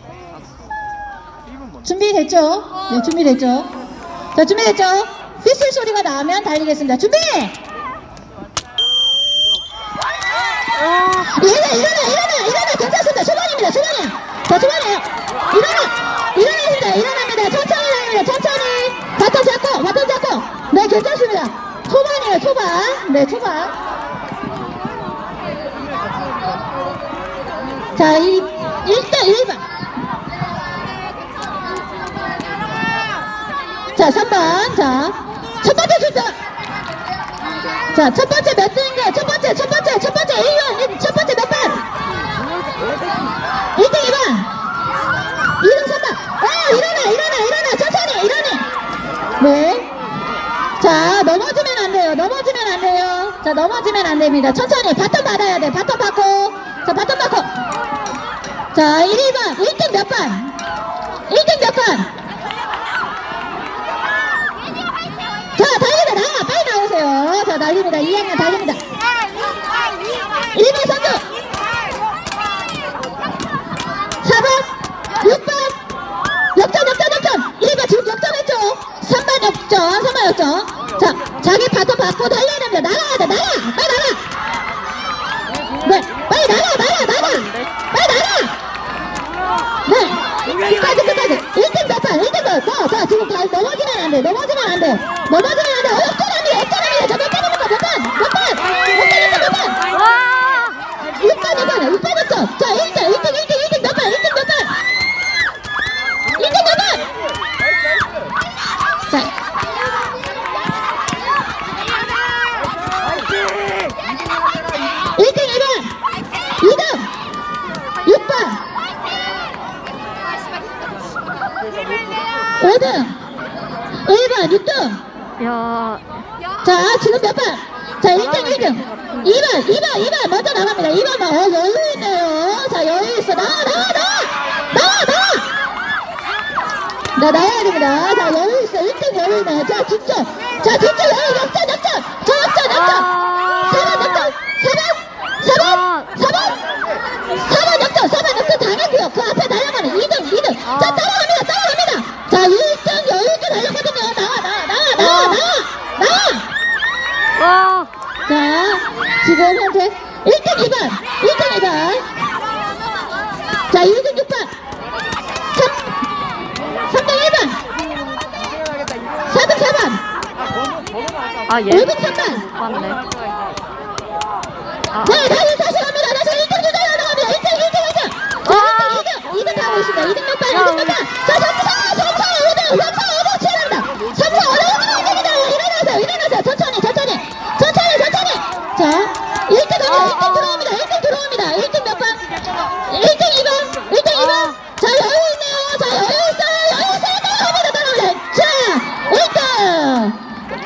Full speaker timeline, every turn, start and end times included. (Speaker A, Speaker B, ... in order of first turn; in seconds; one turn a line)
Speaker A: 1.8-3.7
Speaker A: 4.3-7.5
Speaker A: 11.1-23.7
Speaker A: 27.9-29.6
Speaker A: 34.0-36.4
Speaker A: 37.9-41.8
Speaker A: 43.8-44.5
Speaker A: 45.6-48.6
Speaker A: 49.4-49.9
Speaker A: 50.8-57.5
Speaker A: 58.7-60.5
Speaker A: 61.3-62.1
Speaker A: 65.6-68.8
Speaker A: 70.5-71.2
Speaker A: 74.2-75.8
Speaker A: 76.5-84.2
Speaker A: 85.8-88.5
Speaker A: 89.9-99.8
Speaker B: 100.0-100.7
Speaker A: 101.2-104.8
Speaker A: 106.3-107.0
Speaker A: 115.2-115.9
Speaker A: 116.6-117.1
Speaker A: 118.0-118.6
Speaker A: 122.6-123.2
Speaker A: 124.0-125.0
Speaker B: 125.4-126.0
Speaker A: 126.6-135.5
Speaker A: 137.2-146.6
Speaker B: 142.8-144.2
Speaker B: 145.7-146.1
Speaker A: 147.3-156.4
Speaker B: 155.0-155.4
Speaker B: 157.4-157.9
Speaker A: 158.3-162.0
Speaker A: 163.7-164.5
Speaker A: 165.5-165.8
Speaker A: 166.8-167.6
Speaker A: 169.3-170.0
Speaker B: 171.5-173.0
Speaker A: 171.7-172.4
Speaker A: 175.0-192.2
Speaker B: 178.5-179.0
Speaker B: 180.6-180.9
Speaker A: 192.8-200.2